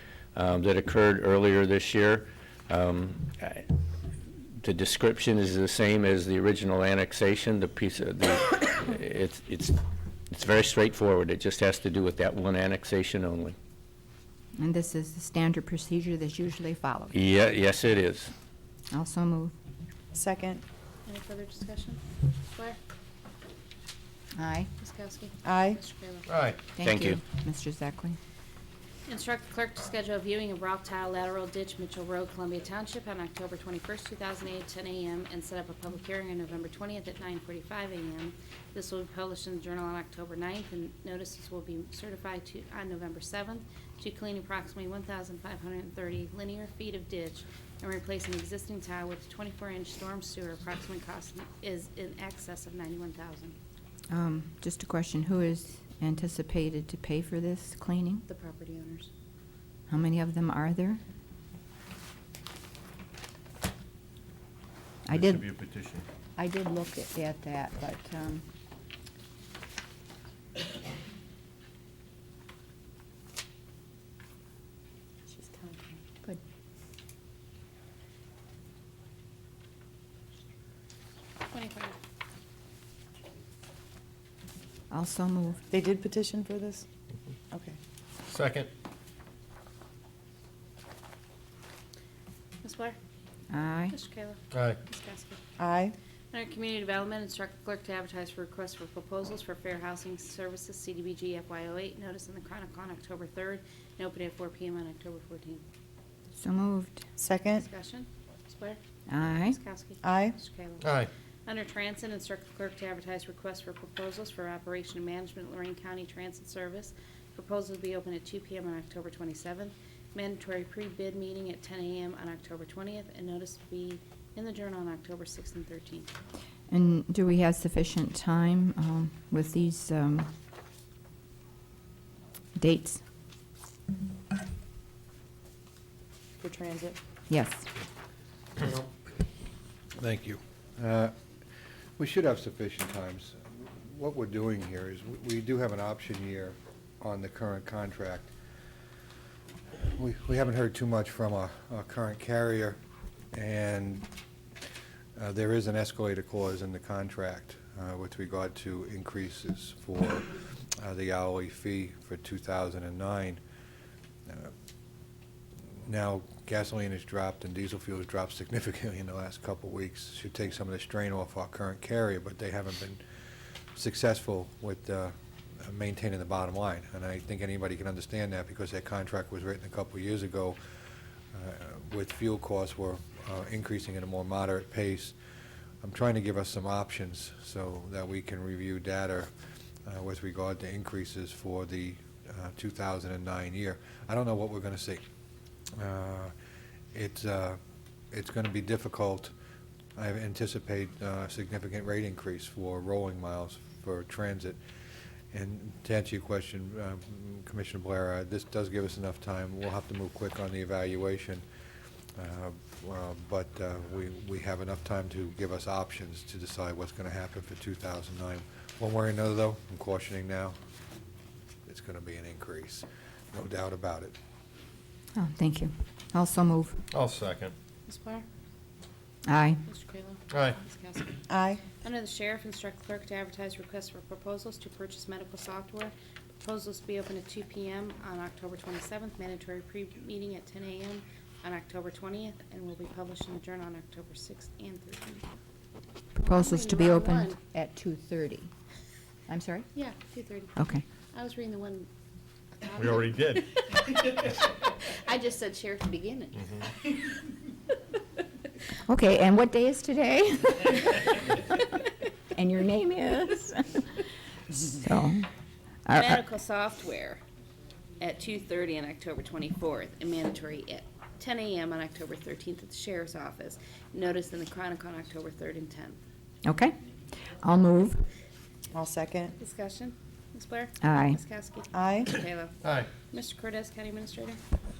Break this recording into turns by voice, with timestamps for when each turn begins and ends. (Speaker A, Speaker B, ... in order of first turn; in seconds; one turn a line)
Speaker A: 0.3-3.7
Speaker A: 4.6-13.6
Speaker B: 14.6-17.1
Speaker A: 17.1-18.3
Speaker B: 18.9-19.5
Speaker C: 20.1-20.6
Speaker D: 21.1-22.0
Speaker D: 22.5-22.8
Speaker B: 24.4-24.7
Speaker D: 24.8-26.3
Speaker C: 25.4-25.8
Speaker E: 26.3-26.6
Speaker B: 26.7-28.2
Speaker A: 26.8-27.2
Speaker D: 29.1-53.5
Speaker B: 54.1-58.2
Speaker D: 58.2-59.1
Speaker B: 59.9-61.0
Speaker B: 65.0-65.5
Speaker A: 65.1-66.0
Speaker B: 66.4-68.4
Speaker D: 75.3-76.0
Speaker D: 81.5-82.0
Speaker B: 84.9-85.6
Speaker C: 85.7-86.8
Speaker C: 87.5-87.8
Speaker E: 88.2-88.7
Speaker D: 92.6-93.0
Speaker B: 93.5-93.9
Speaker D: 93.9-95.4
Speaker E: 94.5-94.8
Speaker C: 95.6-95.9
Speaker D: 96.3-105.6
Speaker B: 106.4-107.0
Speaker C: 107.2-107.7
Speaker D: 107.6-108.8
Speaker B: 109.1-109.6
Speaker D: 109.4-126.1
Speaker C: 110.0-110.3
Speaker E: 110.8-111.1
Speaker B: 126.7-130.3
Speaker B: 132.6-133.0
Speaker C: 136.4-137.0
Speaker B: 137.3-137.7
Speaker F: 140.0-141.1
Speaker F: 142.0-148.3
Speaker F: 149.8-152.8
Speaker F: 153.3-154.1
Speaker F: 155.2-163.4
Speaker F: 164.3-164.5
Speaker F: 165.8-173.0
Speaker F: 173.7-180.6
Speaker F: 181.3-185.2
Speaker F: 185.8-189.3
Speaker F: 189.8-195.0
Speaker F: 195.8-196.3
Speaker F: 196.9-197.6
Speaker F: 198.1-199.3
Speaker F: 199.9-204.6
Speaker F: 205.3-211.4
Speaker F: 212.2-220.6
Speaker F: 221.7-224.2
Speaker B: 225.1-226.8
Speaker E: 226.9-227.5
Speaker D: 227.9-228.2
Speaker B: 229.2-229.6
Speaker D: 229.7-231.2
Speaker E: 230.3-230.6
Speaker C: 231.3-231.6
Speaker D: 231.8-245.3
Speaker B: 246.2-248.5
Speaker D: 246.2-247.4
Speaker B: 249.3-249.7
Speaker D: 249.7-251.9
Speaker B: 250.6-250.8
Speaker D: 252.6-253.3
Speaker E: 252.8-253.6
Speaker D: 253.9-256.7
Speaker B: 258.9-261.6
Speaker B: 262.3-264.0
Speaker B: 264.6-265.3
Speaker B: 265.9-266.2
Speaker D: 265.9-267.2
Speaker D: 268.0-276.0
Speaker B: 276.4-276.8
Speaker B: 277.3-278.0
Speaker C: 278.7-279.3
Speaker D: 279.4-284.4
Speaker B: 280.8-281.2
Speaker C: 281.7-282.1
Speaker E: 282.6-282.9